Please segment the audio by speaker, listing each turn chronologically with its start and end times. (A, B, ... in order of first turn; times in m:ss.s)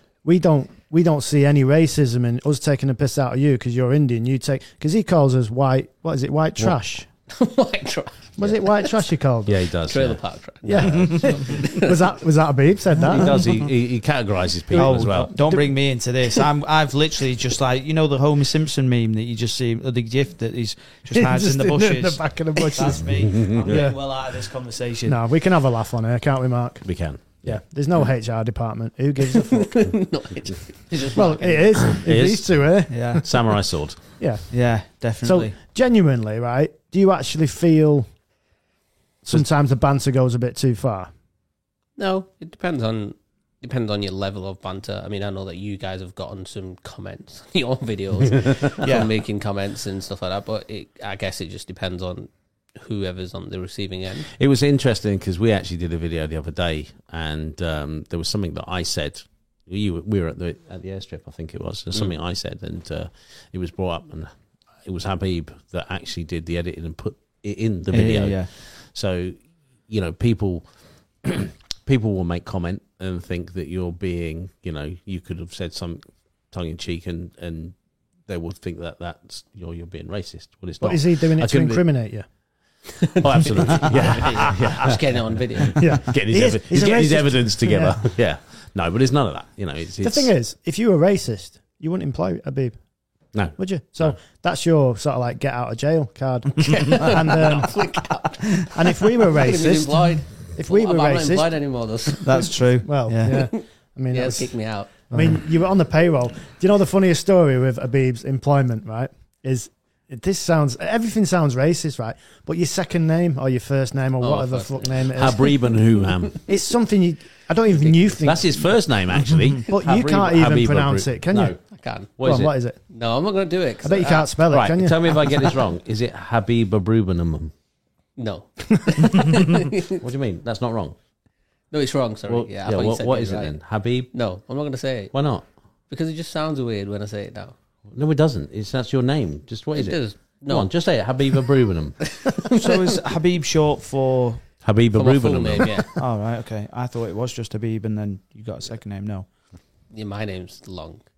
0:00.2-0:07.1 A
0:07.3-0:09.1 B
0:08.4-0:09.6 A
0:09.5-0:10.2 C
0:09.8-0:12.0 B
0:10.6-0:13.4 A
0:13.1-0:15.3 C
0:14.7-0:25.2 D
0:14.8-0:15.7 A
0:21.1-0:24.0 A
0:23.3-0:23.8 C
0:25.1-0:26.9 A
0:26.8-0:27.6 C
0:27.4-0:29.9 A
0:29.2-0:32.0 B
0:31.2-0:33.4 A
0:32.0-0:32.5 C
0:32.9-0:33.2 D
0:33.2-0:34.0 C
0:34.2-0:34.5 A
0:34.5-0:35.6 D
0:35.2-0:38.1 A
0:39.2-0:41.1 A
0:42.0-0:54.3 B
0:48.8-0:49.1 D
0:54.3-1:04.3 C
1:04.8-1:10.7 C
1:07.9-1:08.5 D
1:11.2-1:17.8 C
1:18.3-1:21.8 C
1:20.8-1:22.3 A
1:23.0-1:26.0 B
1:23.2-1:25.0 C
1:25.6-1:30.3 C
1:25.8-1:28.1 A
1:30.0-1:32.8 A
1:33.3-1:34.2 C
1:33.6-1:37.8 A
1:36.6-1:42.6 B
1:38.7-1:41.5 A
1:42.2-1:43.5 D
1:42.8-1:44.6 A
1:43.3-1:45.1 B
1:45.1-1:55.5 A
1:45.1-1:45.4 D
1:54.2-1:55.5 B
1:55.2-1:56.4 C
1:56.5-1:58.6 A
1:57.8-1:58.2 B
1:58.2-2:01.6 C
1:59.7-2:01.6 A
2:01.6-2:02.2 B
2:02.2-2:02.5 C
2:02.2-2:02.8 A
2:02.9-2:04.3 B
2:03.8-2:05.2 A
2:04.5-2:07.5 C
2:08.2-2:10.0 B
2:10.0-2:11.0 C
2:11.7-2:13.6 B
2:12.3-2:14.1 C
2:14.1-2:15.1 B
2:15.1-2:15.4 C
2:15.9-2:17.6 B
2:17.9-2:22.0 C
2:19.7-2:20.7 B
2:22.1-2:23.0 B
2:22.5-2:24.4 D
2:24.6-2:25.9 C
2:24.9-2:25.9 B
2:26.0-2:29.3 D
2:29.9-2:31.0 B